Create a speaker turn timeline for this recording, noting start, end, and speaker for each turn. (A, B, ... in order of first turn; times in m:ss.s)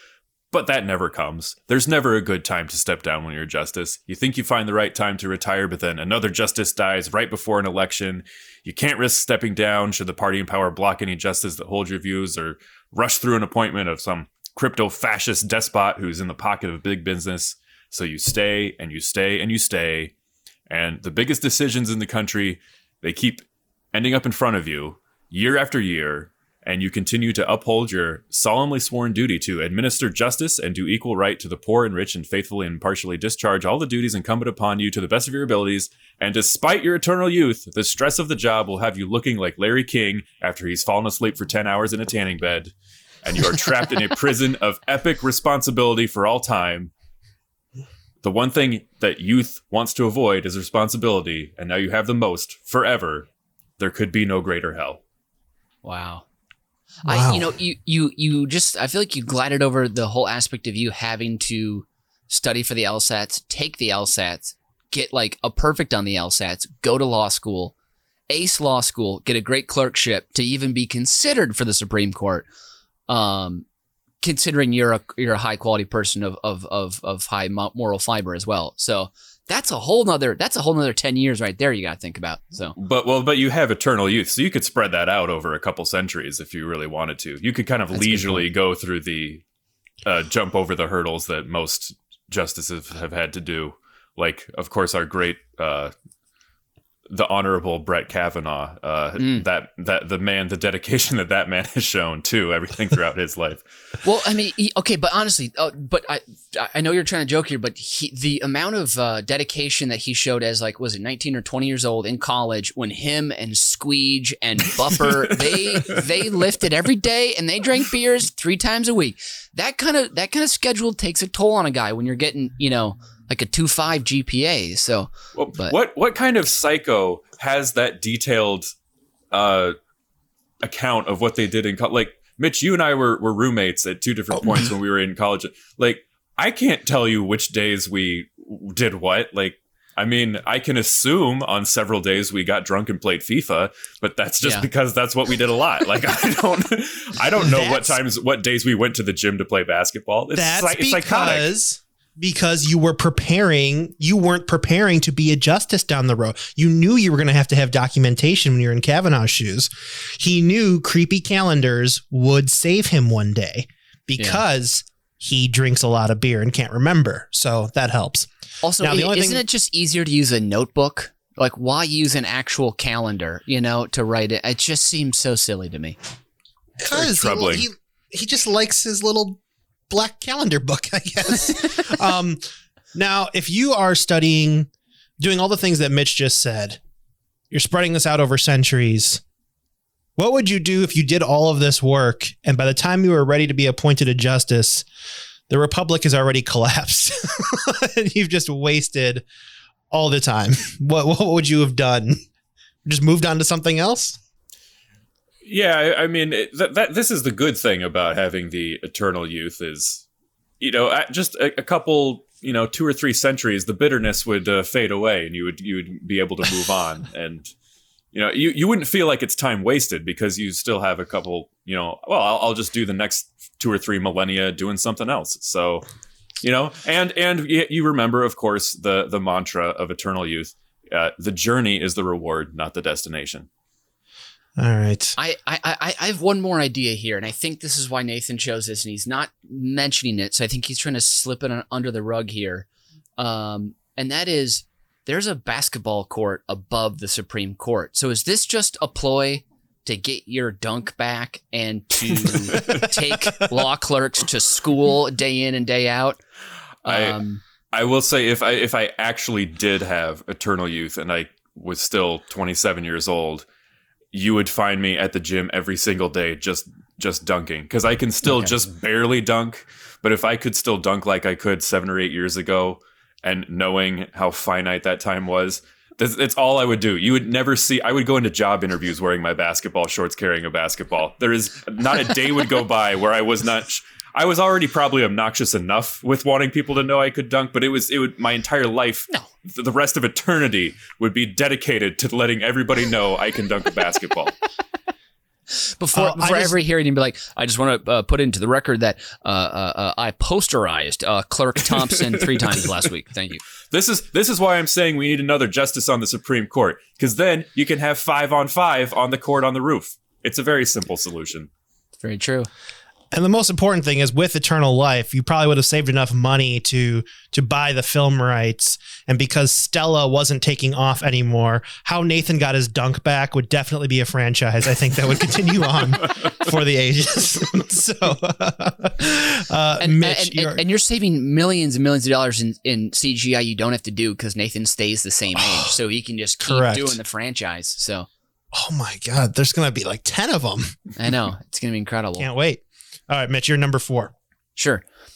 0:00.5-0:20.1 A
0:20.7-0:23.4 A
0:23.9-0:42.7 A
0:43.2-0:46.9 A
0:48.2-0:53.3 A
0:53.8-0:55.0 A
0:55.8-0:56.2 B
0:57.1-1:07.7 B
0:57.1-0:57.5 C
1:08.3-1:12.5 B
1:13.1-1:13.6 B
1:14.2-1:22.7 B
1:22.8-1:29.4 A
1:27.9-1:28.4 B
1:30.0-1:35.9 A
1:37.1-1:43.6 A
1:39.2-1:39.4 B
1:44.0-2:05.7 B
1:55.5-1:55.8 A
2:05.4-2:08.7 A
2:09.3-2:09.8 A
2:10.6-2:31.5 A
2:27.4-2:28.0 C
2:30.4-2:48.3 C
2:48.6-2:56.0 B
2:48.8-2:49.4 C
2:56.8-3:02.4 C
2:56.9-2:57.6 A
3:02.9-3:06.8 C
3:07.5-3:09.2 C
3:10.2-3:14.9 C
3:15.5-3:19.2 C
3:19.9-3:22.2 C
3:22.8-3:24.2 C
3:25.4-3:30.0 A
3:30.6-3:37.5 A
3:38.1-3:45.8 A
3:46.4-3:53.5 A
3:54.6-3:55.2 C
3:55.2-4:02.7 B
4:03.2-4:16.2 B
4:16.8-4:17.4 B
4:16.9-4:17.2 A
4:17.7-4:23.4 A
4:24.1-4:54.4 A
4:55.8-5:03.4 B
4:55.9-4:56.6 C
5:03.7-5:11.5 A
5:12.0-5:12.5 B
5:13.1-5:30.6 C
5:29.8-5:38.1 B
5:35.4-5:35.7 C
5:36.4-5:37.0 C
5:38.5-5:40.8 C
5:41.0-5:42.3 B
5:42.2-5:44.1 C
5:44.6-5:44.8 B